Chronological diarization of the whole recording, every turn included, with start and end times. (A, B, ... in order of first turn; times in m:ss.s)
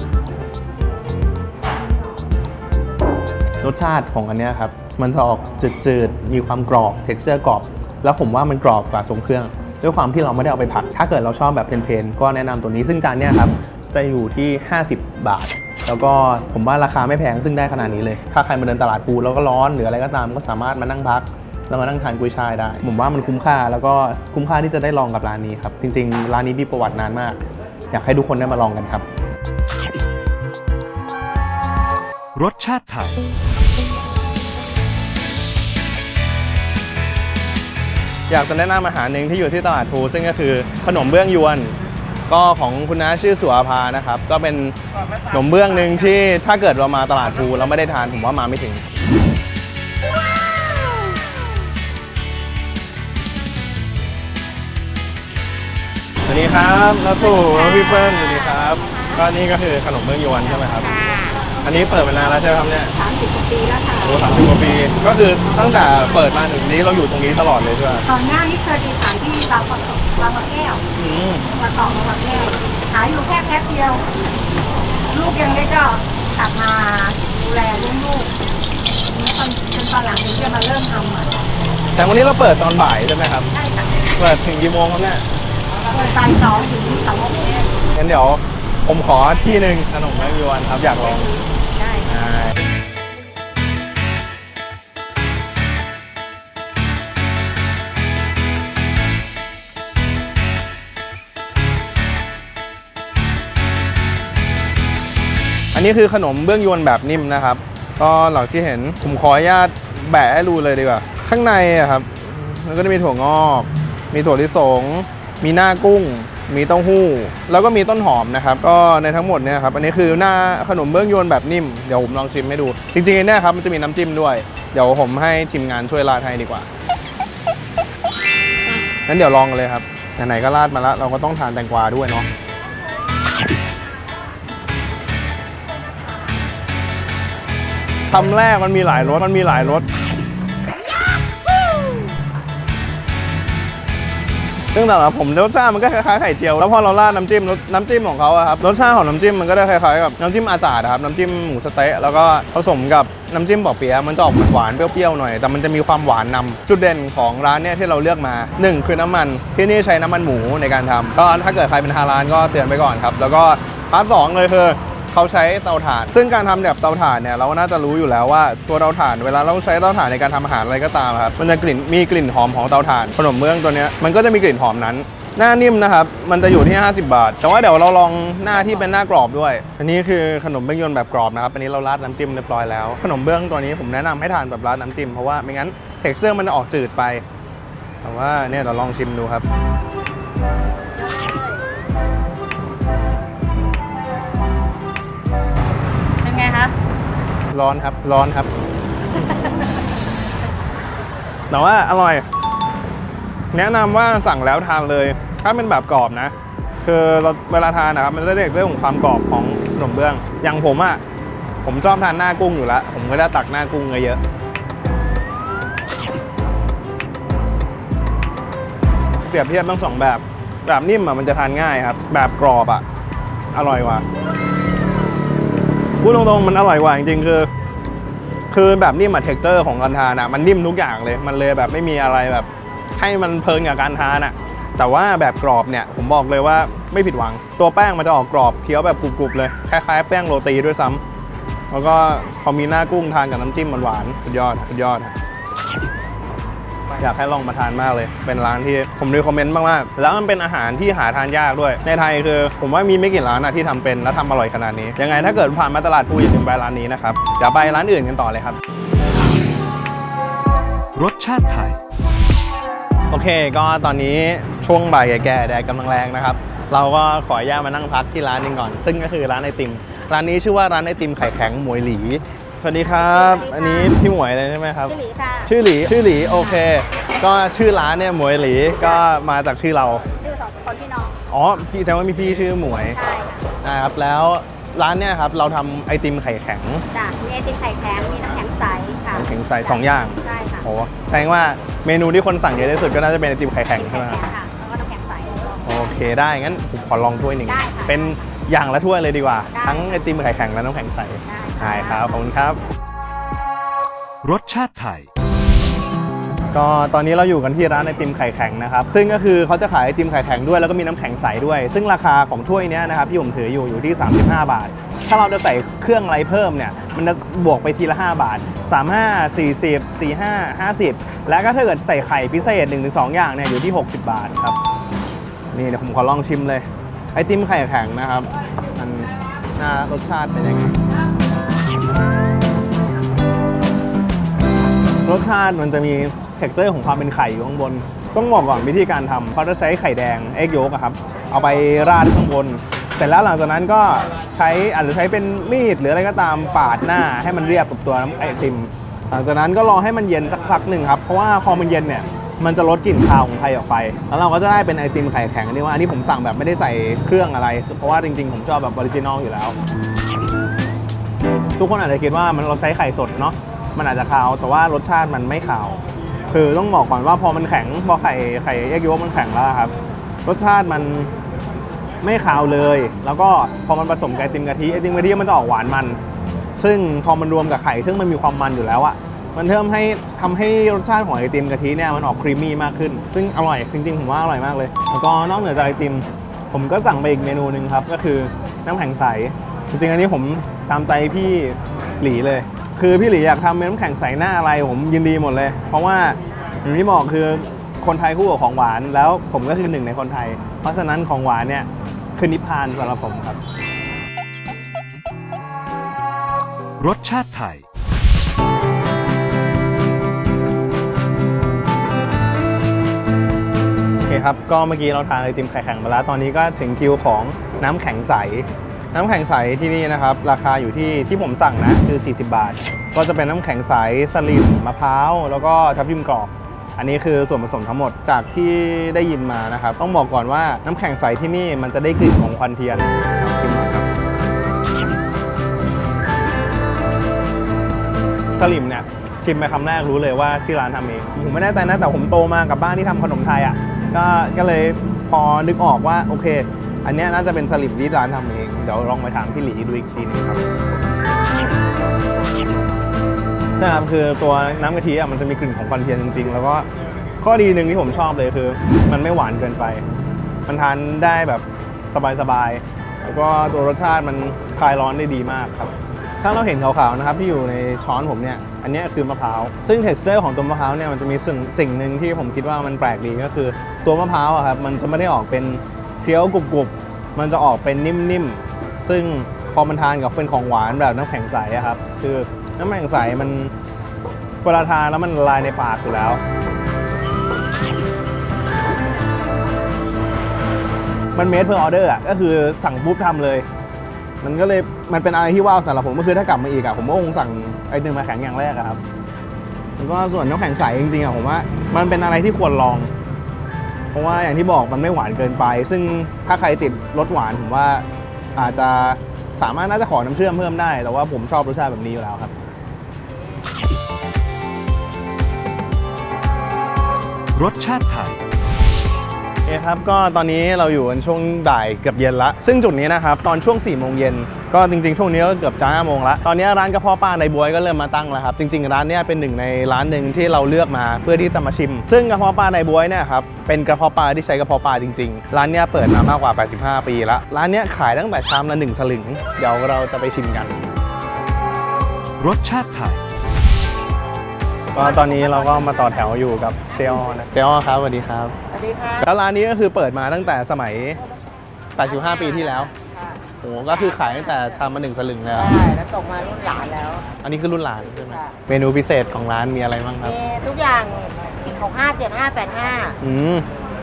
0:03.6-0:29.0 A
0:32.3-0:33.2 B
0:38.3-0:41.8 A
0:42.3-0:44.8 A
0:45.3-0:48.8 A
0:56.2-1:01.0 A
1:01.6-1:02.9 A
1:02.9-1:04.5 C
1:04.0-1:08.0 A
1:08.0-1:10.8 C
1:11.0-1:11.4 A
1:11.5-1:14.0 C
1:15.1-1:18.3 C
1:19.0-1:21.4 C
1:21.9-1:23.5 A
1:23.5-1:23.9 C
1:24.2-1:25.2 A
1:25.9-1:27.6 C
1:27.9-1:31.3 A
1:31.1-1:32.0 C
1:32.0-1:32.5 A
1:45.7-2:06.7 A
2:09.0-2:12.3 A
2:18.1-2:19.9 A
2:24.7-3:07.2 A
3:08.0-3:09.4 A
3:16.3-3:16.5 D
3:17.5-3:18.5 A
3:21.5-3:22.2 A
3:23.5-3:31.0 A
3:31.6-3:34.2 A
3:39.3-3:42.8 A
3:43.5-3:44.0 A
3:46.0-3:47.5 A
3:48.5-4:01.0 A
4:01.7-4:05.2 A
4:07.0-4:18.6 A
4:20.9-4:21.8 B
4:23.1-4:34.9 A
4:32.8-4:34.0 D
4:34.9-4:35.5 D
4:35.4-4:40.0 A
4:40.2-4:41.1 D
4:41.3-4:43.0 A
4:42.7-4:43.5 D
4:43.6-4:46.8 A
4:46.9-4:50.6 D
4:49.1-4:54.2 A
4:53.8-4:55.8 D
4:55.6-5:02.6 A
4:57.4-4:58.2 D
4:59.5-5:00.1 D
5:01.2-5:02.2 D
5:04.2-5:05.1 B
5:06.5-5:24.6 A
5:25.5-5:30.8 A
5:35.0-5:59.6 A
6:01.6-6:09.7 A
6:10.2-6:11.1 A
6:12.0-6:16.0 A
6:16.6-6:43.4 A
6:46.8-6:47.6 B
6:54.0-7:13.9 A
7:18.4-7:30.4 A
7:33.6-7:36.7 A
7:37.2-7:39.8 A
7:40.4-8:03.5 A
8:04.4-8:06.2 A
8:11.1-8:13.4 A
8:14.2-8:18.8 A
8:19.8-8:22.9 A
8:23.9-8:32.3 A
8:37.3-8:38.2 B
8:39.4-9:00.6 A
9:02.2-9:03.0 B
9:04.7-9:08.4 A
9:04.8-9:05.6 E
9:08.5-9:09.0 E
9:09.0-9:11.0 A
9:11.8-9:12.7 A
9:11.9-9:13.2 E
9:13.4-9:15.5 A
9:15.3-9:17.0 E
9:17.2-9:20.2 A
9:18.0-9:18.3 E
9:20.0-9:23.0 E
9:23.0-9:23.5 A